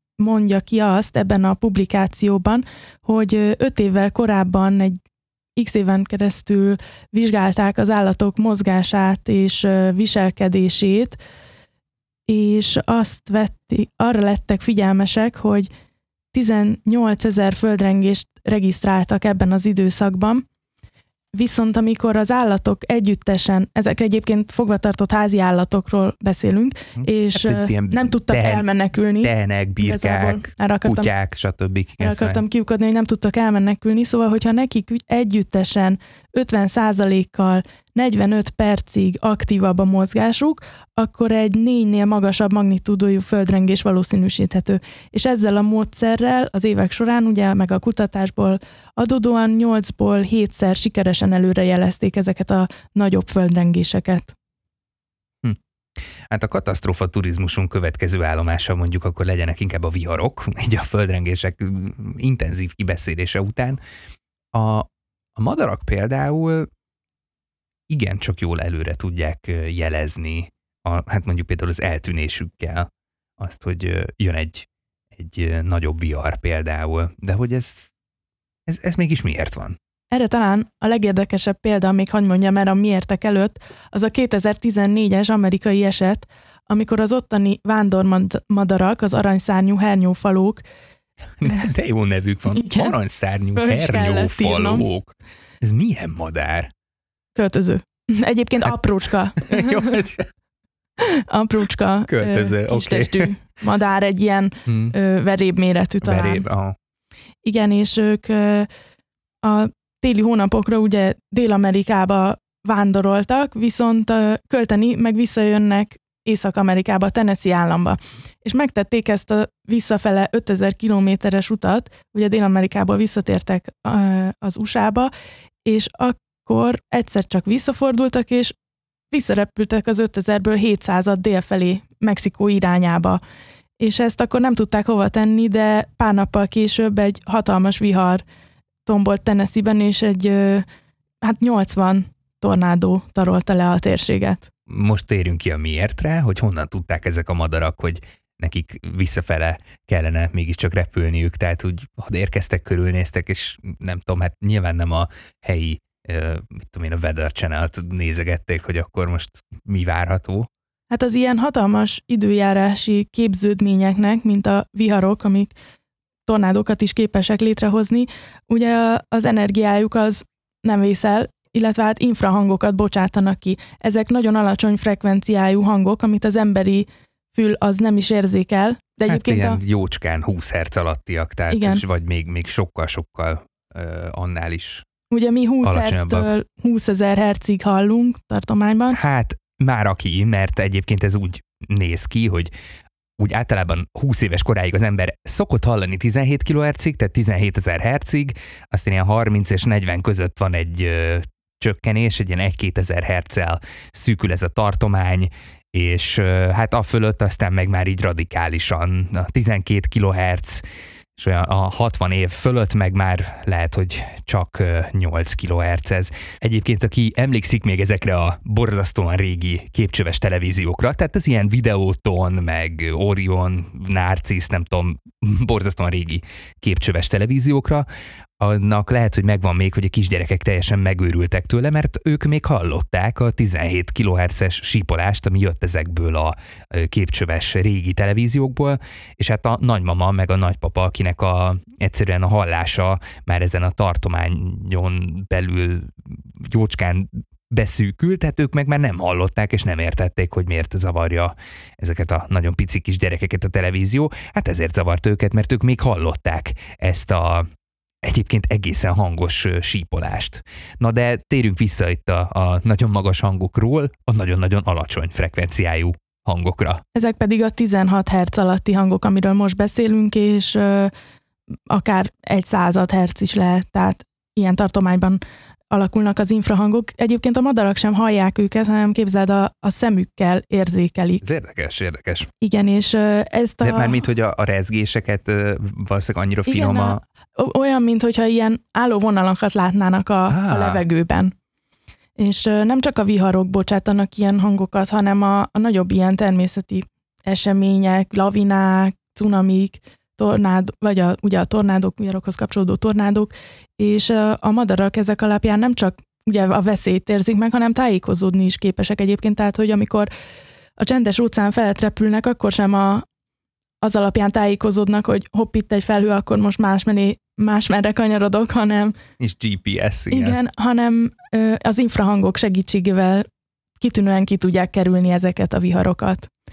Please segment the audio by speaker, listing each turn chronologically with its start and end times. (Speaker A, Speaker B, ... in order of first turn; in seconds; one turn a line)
Speaker A: 0.2-5.0
Speaker A: 5.6-11.2
Speaker A: 12.3-15.7
Speaker A: 16.3-20.4
Speaker A: 21.3-31.1
Speaker B: 27.0-28.6
Speaker B: 29.2-32.4
Speaker A: 32.0-54.3
Speaker B: 56.3-63.8
Speaker B: 64.5-66.7
Speaker B: 67.9-72.9
Speaker B: 73.4-77.9
Speaker B: 78.7-79.8
Speaker A: 80.1-90.6
Speaker B: 91.4-96.7
Speaker A: 92.5-93.0
Speaker A: 93.5-94.9
Speaker A: 97.3-100.0
Speaker B: 98.6-98.9
Speaker B: 99.4-100.3
Speaker A: 101.0-106.4
Speaker B: 102.1-103.3
Speaker B: 104.7-104.9
Speaker B: 106.0-106.8
Speaker A: 107.4-108.7
Speaker A: 109.4-125.1
Speaker A: 125.6-128.6
Speaker A: 129.1-133.2
Speaker A: 133.8-138.2
Speaker A: 138.9-140.6
Speaker A: 141.2-144.5
Speaker B: 144.7-160.5
Speaker A: 160.9-165.5
Speaker A: 166.3-179.6
Speaker B: 179.1-184.9
Speaker A: 181.5-181.8
Speaker A: 185.1-189.0
Speaker B: 185.6-186.3
Speaker B: 188.9-192.5
Speaker B: 193.2-210.6
Speaker B: 211.2-227.9
Speaker B: 228.4-257.5
Speaker B: 258.0-266.8
Speaker A: 266.9-270.9
Speaker A: 271.7-275.2
Speaker A: 275.7-281.2
Speaker B: 281.2-282.3
Speaker A: 282.4-284.0
Speaker B: 283.6-287.0
Speaker A: 286.5-291.3
Speaker B: 290.3-290.8
Speaker A: 292.2-310.1
Speaker A: 310.8-313.1
Speaker A: 313.8-318.9
Speaker B: 319.2-320.4
Speaker A: 320.1-323.3
Speaker A: 323.8-326.3